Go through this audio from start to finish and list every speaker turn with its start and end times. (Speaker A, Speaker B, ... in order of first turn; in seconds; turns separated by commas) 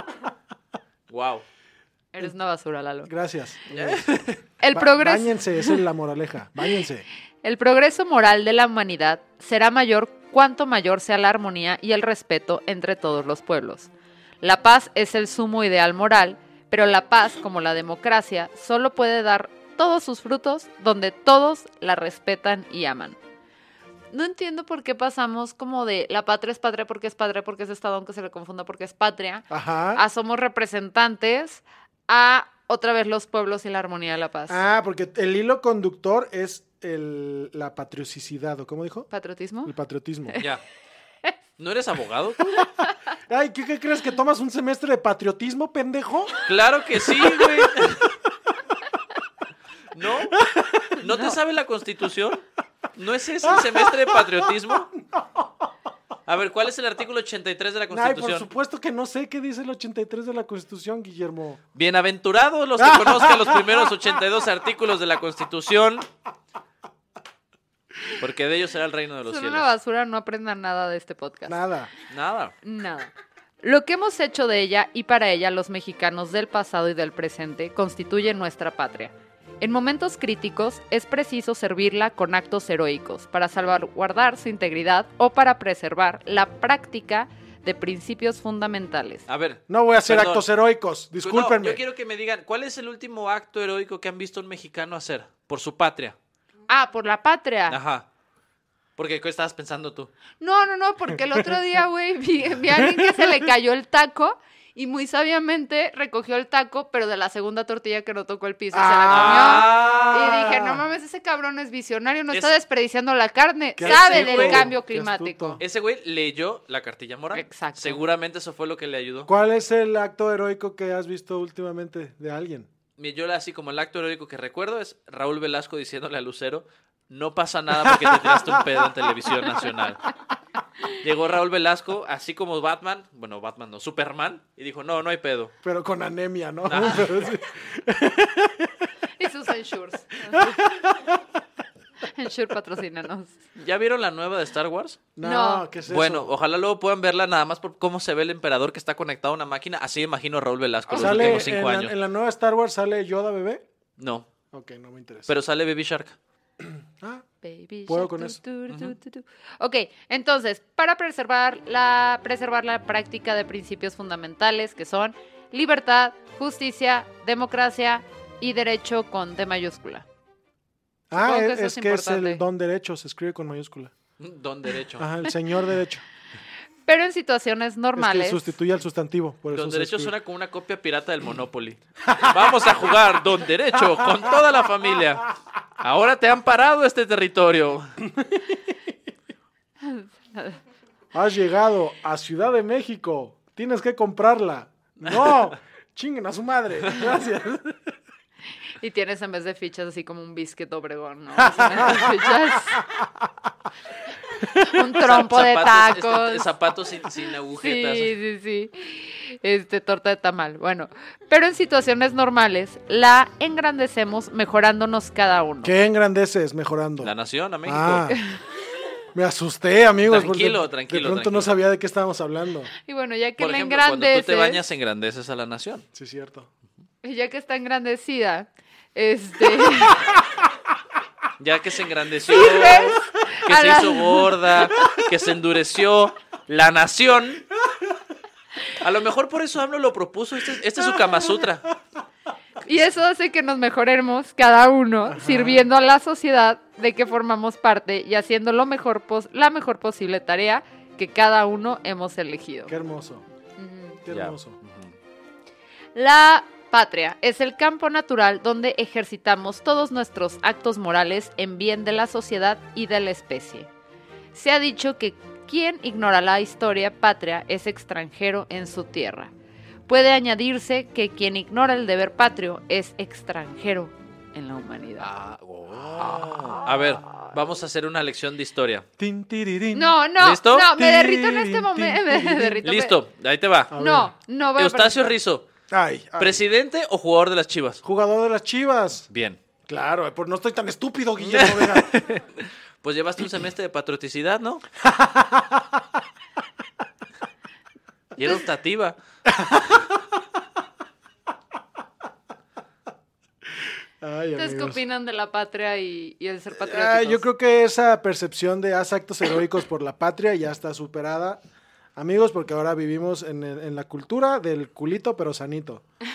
Speaker A: 1.1-1.4, Speaker B: 2.1-3.1, Speaker C: 3.0-4.0, Speaker A: 3.7-4.4, Speaker B: 4.6-5.4, Speaker C: 4.7-7.0, Speaker B: 7.4-23.2, Speaker B: 24.1-34.6, Speaker C: 29.5-30.0, Speaker C: 34.5-39.1, Speaker B: 39.1-39.7, Speaker C: 39.6-40.4, Speaker A: 41.6-42.6, Speaker C: 43.3-46.4, Speaker A: 46.4-48.2, Speaker C: 47.2-47.6, Speaker A: 49.9-50.4, Speaker C: 50.3-51.0, Speaker A: 51.0-54.9, Speaker C: 53.4-54.4, Speaker C: 55.0-55.4, Speaker A: 56.3-58.5, Speaker C: 57.9-61.6, Speaker A: 61.7-66.1, Speaker C: 62.8-63.9, Speaker A: 68.2-69.7, Speaker B: 69.2-71.6, Speaker C: 71.5-71.9, Speaker A: 72.1-72.5, Speaker B: 72.6-89.2, Speaker A: 89.3-90.5, Speaker C: 89.7-91.8, Speaker A: 91.2-96.2, Speaker B: 96.7-97.8, Speaker A: 97.7-98.1, Speaker A: 99.0-100.1, Speaker B: 100.4-115.6, Speaker C: 102.7-103.4, Speaker C: 108.7-110.8, Speaker A: 109.1-110.1, Speaker C: 113.8-115.6, Speaker A: 113.8-114.7, Speaker A: 115.6-119.3, Speaker B: 117.3-118.0, Speaker C: 119.2-122.7, Speaker A: 123.0-130.1, Speaker C: 127.8-128.5, Speaker A: 130.9-135.5, Speaker C: 135.6-138.9, Speaker A: 136.7-137.3, Speaker B: 139.2-140.6, Speaker C: 140.2-141.2, Speaker B: 142.0-143.3, Speaker A: 143.6-145.0, Speaker C: 145.2-146.3, Speaker B: 145.2-145.7, Speaker A: 145.8-151.9, Speaker C: 150.9-153.6, Speaker B: 150.9-151.5, Speaker A: 154.0-154.3, Speaker C: 154.5-155.3, Speaker A: 155.3-156.2, Speaker C: 156.6-157.2, Speaker B: 157.4-170.0, Speaker C: 157.9-158.4, Speaker A: 158.7-158.9, Speaker C: 171.1-173.9, Speaker B: 171.1-172.4, Speaker A: 174.2-175.1, Speaker C: 175.0-176.0, Speaker B: 176.8-178.5, Speaker C: 177.9-180.1, Speaker A: 179.5-187.9, Speaker C: 182.1-182.4, Speaker C: 188.1-188.4, Speaker B: 189.8-190.6, Speaker C: 191.1-197.8, Speaker B: 198.8-202.8, Speaker C: 201.4-202.1, Speaker B: 204.7-206.5, Speaker A: 205.0-208.2, Speaker B: 207.6-215.7, Speaker C: 215.6-217.1, Speaker A: 217.0-218.0, Speaker C: 217.6-218.2, Speaker B: 218.1-218.4, Speaker C: 219.1-222.7, Speaker A: 220.1-221.6, Speaker B: 222.8-224.6, Speaker A: 223.4-225.8, Speaker C: 225.9-226.5, Speaker B: 227.0-230.2, Speaker A: 231.4-237.4, Speaker B: 232.3-234.3, Speaker A: 238.8-241.7, Speaker B: 242.7-252.7, Speaker C: 245.1-245.7, Speaker C: 252.7-253.2, Speaker B: 253.6-254.0, Speaker C: 254.0-254.6, Speaker A: 254.1-254.9, Speaker B: 255.9-263.7, Speaker B: 264.3-269.3, Speaker B: 269.9-275.1, Speaker A: 275.0-278.8, Speaker C: 276.0-276.4, Speaker C: 279.0-280.0, Speaker B: 279.7-283.0, Speaker A: 280.2-280.7, Speaker C: 280.6-282.6, Speaker A: 282.6-283.8, Speaker C: 283.7-284.1, Speaker B: 283.7-285.1, Speaker A: 284.5-285.4, Speaker C: 285.7-286.4, Speaker A: 286.2-287.8, Speaker C: 287.8-289.1, Speaker A: 289.1-289.4, Speaker C: 289.7-291.9, Speaker A: 291.2-294.6, Speaker C: 294.8-295.8, Speaker A: 298.1-299.0, Speaker C: 299.2-299.9, Speaker C: 304.0-304.8, Speaker B: 304.4-307.2, Speaker C: 306.5-311.4, Speaker C: 311.9-315.8